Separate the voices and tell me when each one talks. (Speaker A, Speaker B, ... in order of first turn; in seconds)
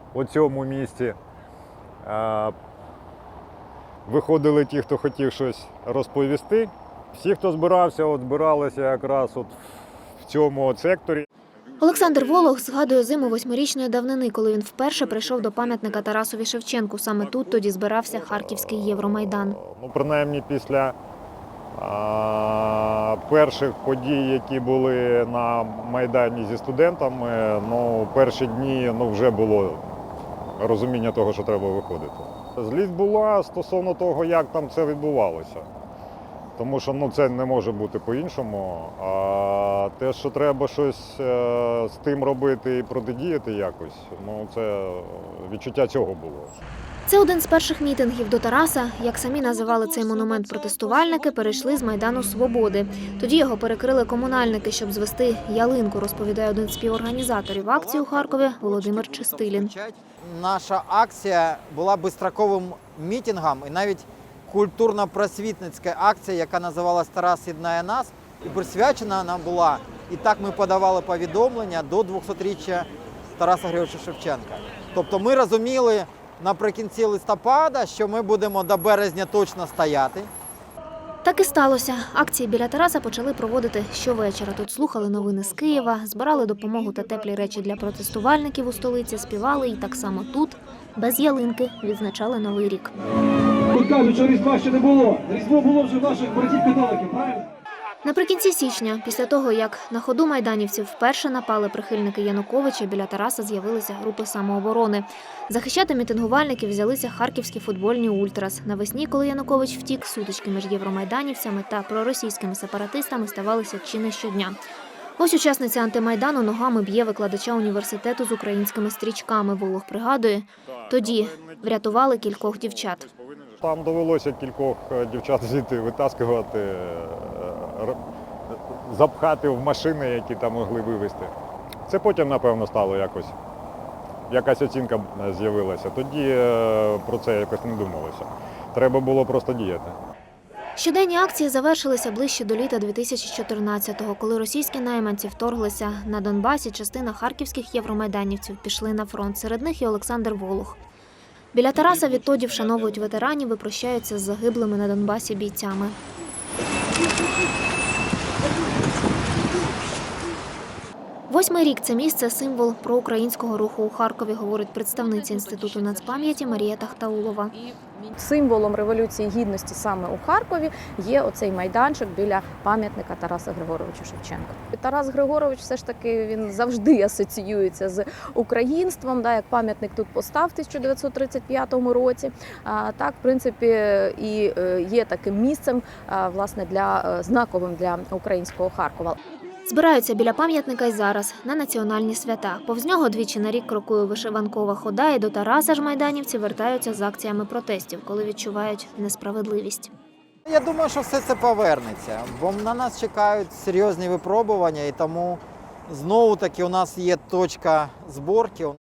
Speaker A: 0.1-1.2, 2.0-2.5, 4.1-9.6, 10.2-11.3, 19.0-20.9, 21.7-29.9, 30.6-35.7, 36.6-46.5, 120.8-122.3, 123.1-128.0, 128.5-131.3, 131.9-133.3, 134.3-140.0
Speaker B: 11.8-19.6, 47.1-59.7, 81.2-92.9, 98.0-114.6, 115.2-123.1, 140.8-150.8, 151.5-156.0, 161.3-167.6, 189.7-199.9
Speaker C: 49.7-51.4, 165.0-166.9, 167.5-189.2
Speaker D: 57.7-80.3, 200.5-208.8
Speaker E: 93.7-97.5